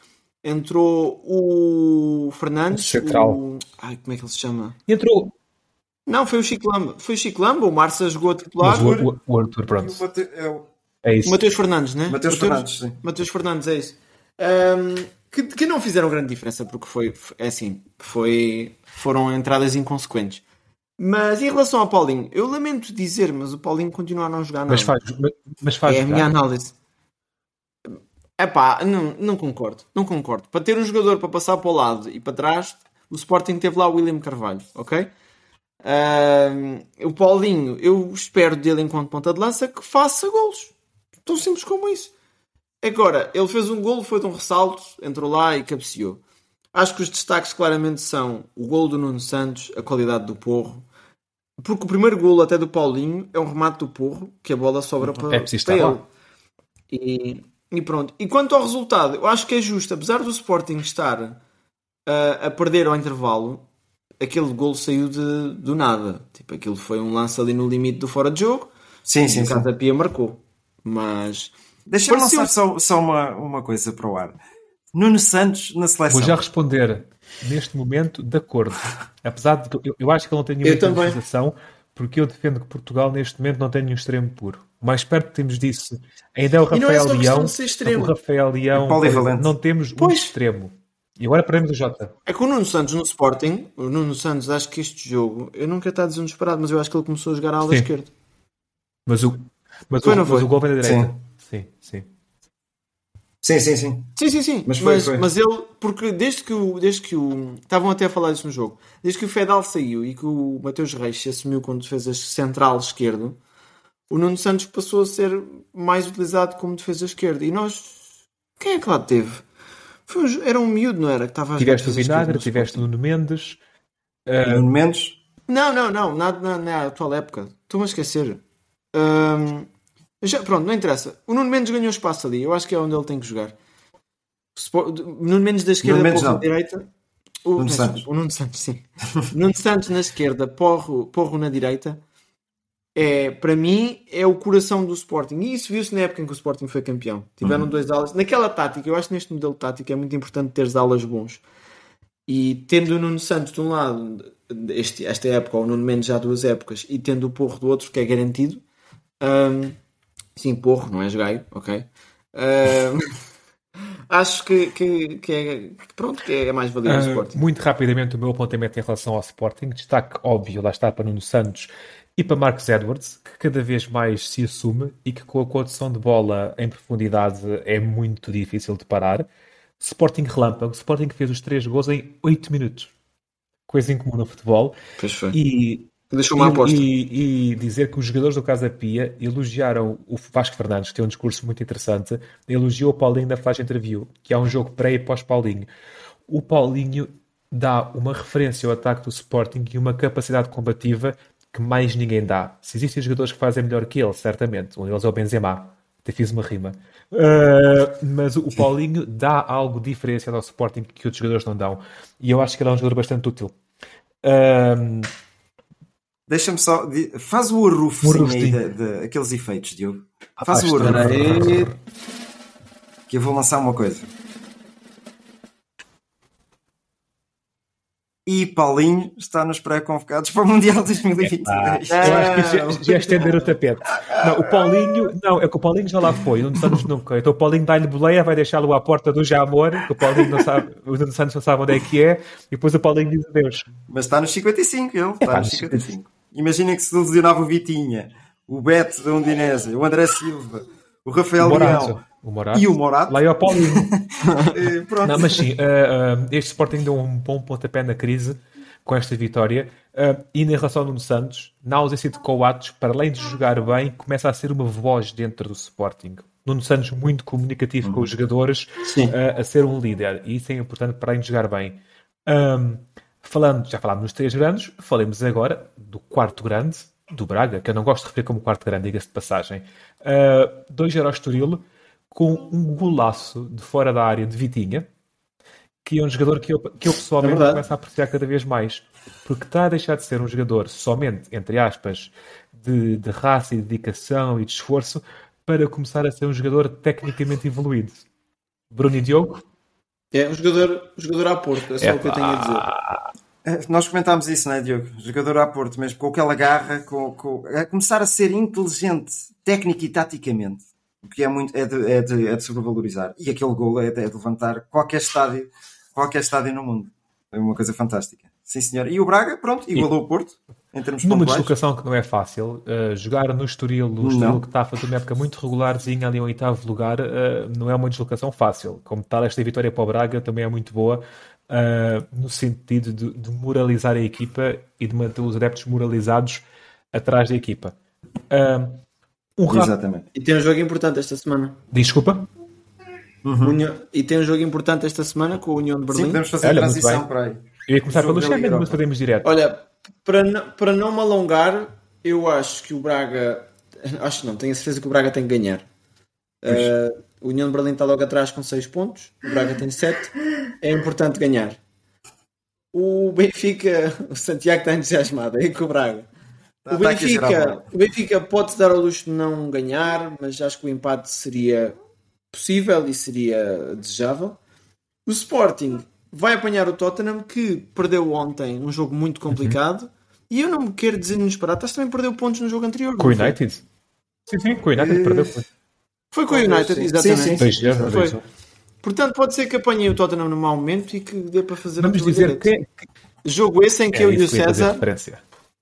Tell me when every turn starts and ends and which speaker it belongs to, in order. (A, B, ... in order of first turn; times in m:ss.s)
0:00.4-0:04.8 A
0:02.7-0:03.4 B
0:04.9-0:05.3 B
0:06.1-0:08.9 A
0:08.6-0:10.0 B
0:08.8-0:09.1 C
0:09.8-0:10.7 C
0:11.0-0:11.5 B
0:11.2-0:20.4 A
0:12.1-0:13.0 C
0:21.0-0:24.9 A
0:24.7-0:26.3 B
0:25.9-0:26.7 A
0:27.9-0:35.1 A
0:35.8-0:40.7 A
0:41.3-0:42.1 A
0:42.8-0:46.2 A
0:46.7-0:50.9 A
0:51.6-0:56.0 A
0:55.3-0:56.0 B
0:56.9-1:01.4 A
1:02.1-1:03.6 A
1:04.2-1:08.7 A
1:09.0-1:09.7 C
1:09.3-1:11.5 A
1:11.9-1:14.4 C
1:12.1-1:12.5 A
1:14.9-1:16.4 C
1:16.1-1:32.1 B
1:20.6-1:21.2 A
1:26.7-1:28.1 A
1:28.7-1:29.5 C
1:30.0-1:30.3 A
1:32.3-1:38.1 A
1:39.1-1:42.1 B
1:40.0-1:40.5 A
1:40.8-1:41.1 C
1:43.4-1:45.3 C
1:44.2-1:53.4 A
1:54.1-1:59.4 A
2:00.1-2:02.9 A
2:01.6-2:03.6 B
2:04.3-2:04.7 B
2:04.4-2:05.2 C
2:05.5-2:08.4 A
2:08.9-2:09.7 A
2:10.2-2:13.6 A
2:14.6-2:16.9 A
2:15.8-2:16.5 C
2:17.4-2:22.0 A
2:17.6-2:18.0 C
2:23.0-2:31.4 A
2:32.3-2:38.6 A
2:39.2-2:39.8 A
2:40.4-2:43.1 A
2:44.1-2:47.4 A
2:46.9-2:59.3 B
2:59.8-3:02.9 B
3:03.7-3:04.8 B
3:05.0-3:05.4 A
3:05.3-3:15.7 B
3:06.1-3:06.8 A
3:16.3-3:33.5 B
3:34.2-3:35.1 B
3:36.3-3:41.6 C
3:38.0-3:38.6 B
3:40.5-3:41.8 B
3:40.8-3:41.7 A
3:43.1-3:44.1 C
3:48.3-3:52.3 C
3:51.2-4:03.7 B
3:51.9-3:53.5 A
3:54.1-3:55.0 C
4:00.0-4:00.4 C
4:03.9-4:12.0 C
4:05.3-4:05.9 B
4:11.4-4:13.9 B
4:12.5-4:15.5 C
4:14.2-4:14.5 A
4:15.0-4:44.9 B
4:45.8-4:58.1 B
4:47.2-4:47.6 A
4:58.7-4:59.4 B
5:00.1-5:02.7 A
5:01.8-5:03.0 B
5:03.4-5:21.5 C
5:21.0-5:37.8 B
5:24.0-5:24.4 C
5:38.3-5:38.8 B
5:39.4-5:39.7 B
5:39.5-5:40.0 C
5:40.2-5:41.6 A
5:41.7-5:42.3 B
5:43.2-5:43.6 C
5:43.4-5:46.2 A
5:45.9-5:48.8 C
5:46.4-5:47.1 B
5:47.7-5:49.3 B
5:49.2-5:55.7 A
5:56.4-6:01.6 A
6:02.7-6:06.1 A
6:06.6-6:07.7 C
6:06.7-6:11.8 A
6:12.3-6:14.4 A
6:15.1-6:23.4 A
6:19.3-6:19.6 B
6:23.0-6:23.6 B
6:24.3-6:25.5 B
6:24.8-6:25.4 C
6:26.1-6:28.2 A
6:26.3-6:28.2 C
6:27.4-6:28.2 B
6:28.8-6:32.5 A
6:31.8-6:32.7 B
6:33.2-6:34.8 A
6:33.9-6:35.2 B